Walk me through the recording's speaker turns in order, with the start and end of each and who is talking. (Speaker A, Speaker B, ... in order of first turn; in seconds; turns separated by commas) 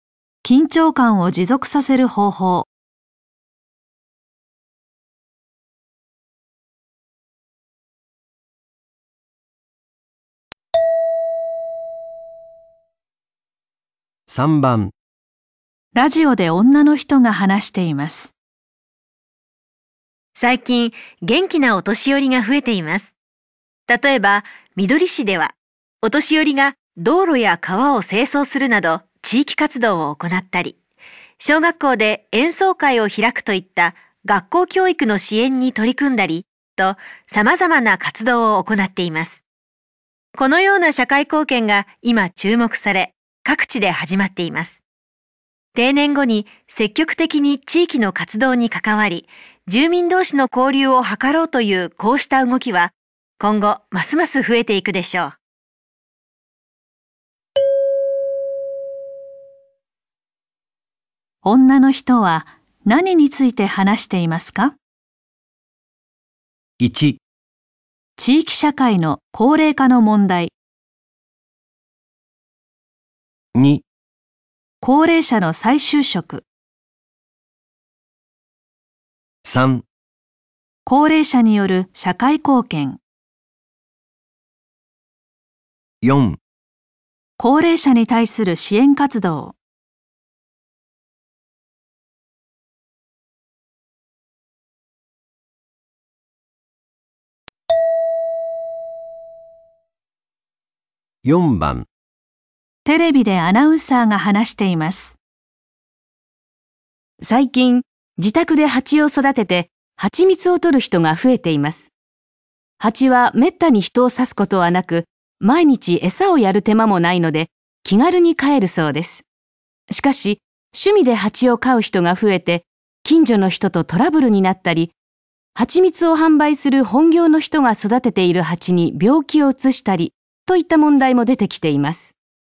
Speaker A: 0.4-2.7, Speaker B: 14.3-14.9, Speaker A: 15.9-18.3, Speaker C: 20.3-23.1, Speaker C: 23.9-30.8, Speaker C: 31.4-39.4, Speaker C: 40.3-44.8, Speaker C: 45.7-55.4, Speaker A: 61.4-64.7, Speaker B: 66.8-67.2, Speaker A: 68.2-70.5, Speaker B: 73.5-73.8, Speaker A: 74.8-76.4, Speaker B: 79.4-79.8, Speaker A: 80.8-83.0, Speaker B: 86.0-86.4, Speaker A: 87.4-89.5, Speaker B: 101.2-101.9, Speaker A: 102.8-105.2, Speaker D: 107.2-111.9, Speaker D: 112.8-119.2, Speaker D: 119.9-124.9, Speaker D: 125.5-132.1